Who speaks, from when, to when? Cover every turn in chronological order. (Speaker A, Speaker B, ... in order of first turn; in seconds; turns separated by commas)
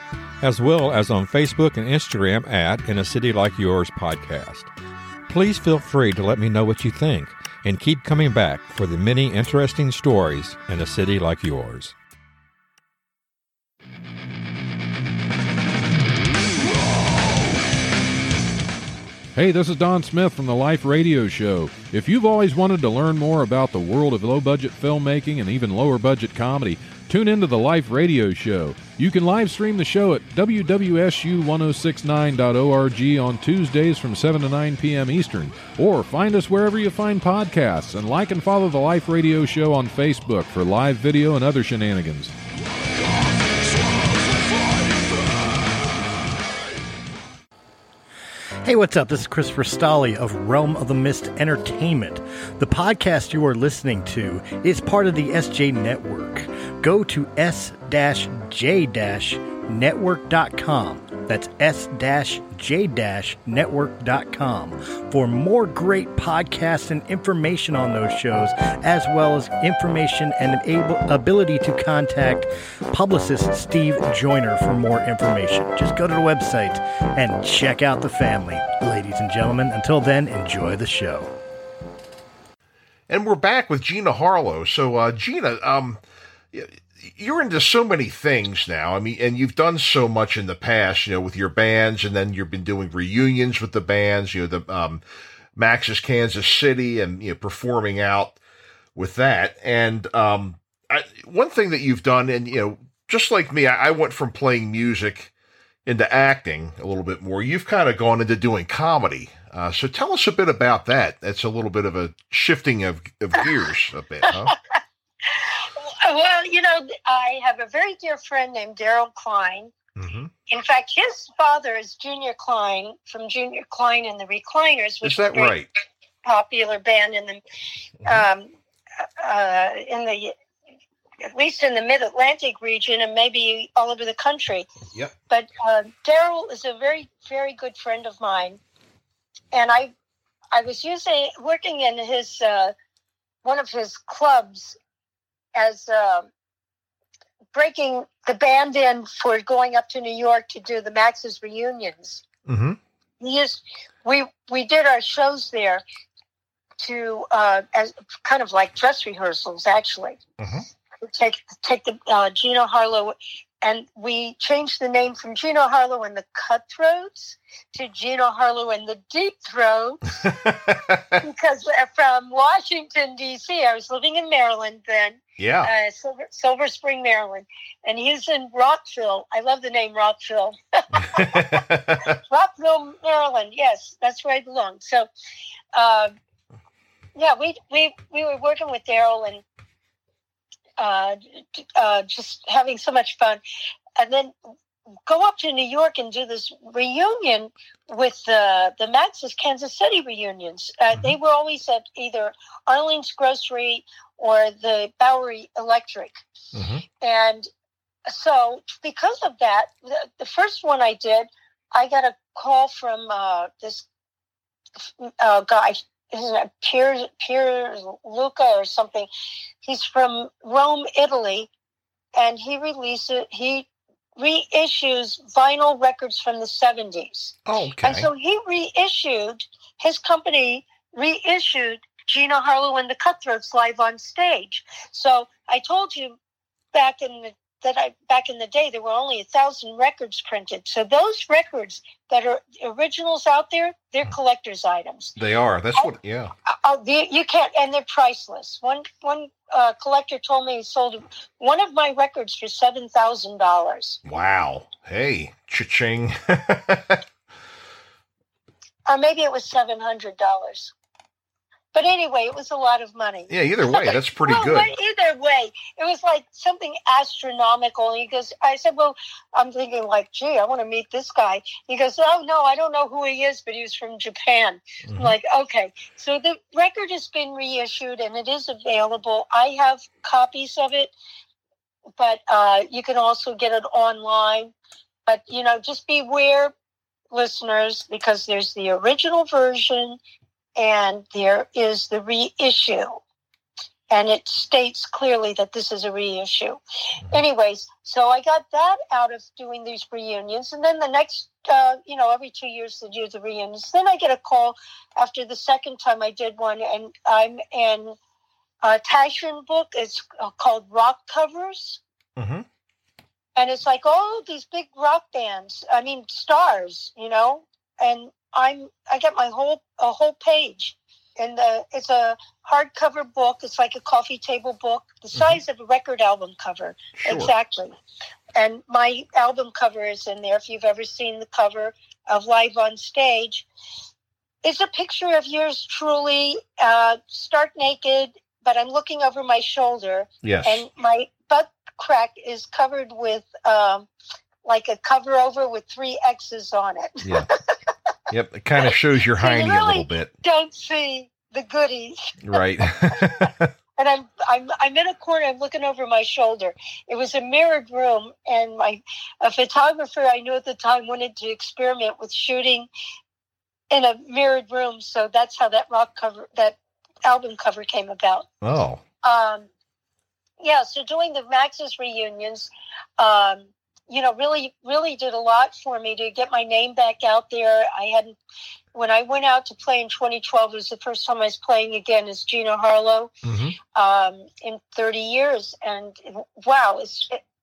Speaker A: 0.4-4.7, Speaker A: 5.3-12.0, Speaker B: 19.4-42.3, Speaker C: 48.6-81.3, Speaker D: 83.1-86.0, Speaker D: 86.5-95.0, Speaker D: 95.6-98.4, Speaker D: 99.0-105.3, Speaker D: 105.9-114.5, Speaker E: 115.3-119.7, Speaker D: 120.0-120.3, Speaker E: 120.5-125.5, Speaker D: 125.0-125.7, Speaker E: 126.2-127.4, Speaker E: 128.1-130.3, Speaker E: 131.2-134.7, Speaker E: 135.3-138.6, Speaker E: 139.5-139.9, Speaker E: 140.5-142.7, Speaker E: 143.4-144.8, Speaker E: 145.6-146.3, Speaker E: 147.5-152.2, Speaker D: 152.5-152.8, Speaker E: 153.2-155.8, Speaker E: 156.8-160.2, Speaker E: 161.0-170.3, Speaker D: 170.3-171.2, Speaker E: 171.2-181.6, Speaker D: 175.4-175.7, Speaker D: 181.0-182.2, Speaker E: 182.1-185.1, Speaker E: 185.8-186.1, Speaker E: 187.2-189.4, Speaker E: 190.8-193.4, Speaker E: 194.0-194.3, Speaker E: 195.1-206.2, Speaker D: 206.5-206.8, Speaker E: 207.0-207.5, Speaker E: 208.1-213.9, Speaker E: 215.0-219.1, Speaker E: 219.6-221.5, Speaker E: 222.2-223.7, Speaker E: 224.2-236.2, Speaker D: 227.5-228.1, Speaker E: 236.7-245.2, Speaker D: 245.2-246.3, Speaker E: 246.5-254.0, Speaker D: 254.1-257.0, Speaker E: 258.9-260.7, Speaker E: 261.7-280.9, Speaker D: 263.3-264.7, Speaker D: 274.9-275.1, Speaker E: 282.0-284.5, Speaker E: 285.1-286.5, Speaker E: 287.1-290.0, Speaker E: 290.6-293.0, Speaker E: 293.9-296.6, Speaker E: 297.1-308.0, Speaker E: 308.6-311.8, Speaker D: 312.2-312.5, Speaker E: 313.4-327.8, Speaker D: 327.0-327.3, Speaker E: 328.4-333.5, Speaker E: 334.4-343.9, Speaker D: 340.2-340.6, Speaker E: 344.4-347.6, Speaker D: 347.0-347.3, Speaker D: 348.1-350.1, Speaker E: 348.6-352.4, Speaker D: 352.2-353.5, Speaker E: 352.9-362.7, Speaker E: 363.7-368.3, Speaker D: 368.4-368.8, Speaker E: 369.0-369.5, Speaker E: 370.4-378.2, Speaker E: 378.7-383.1, Speaker D: 383.2-383.6, Speaker E: 383.8-387.2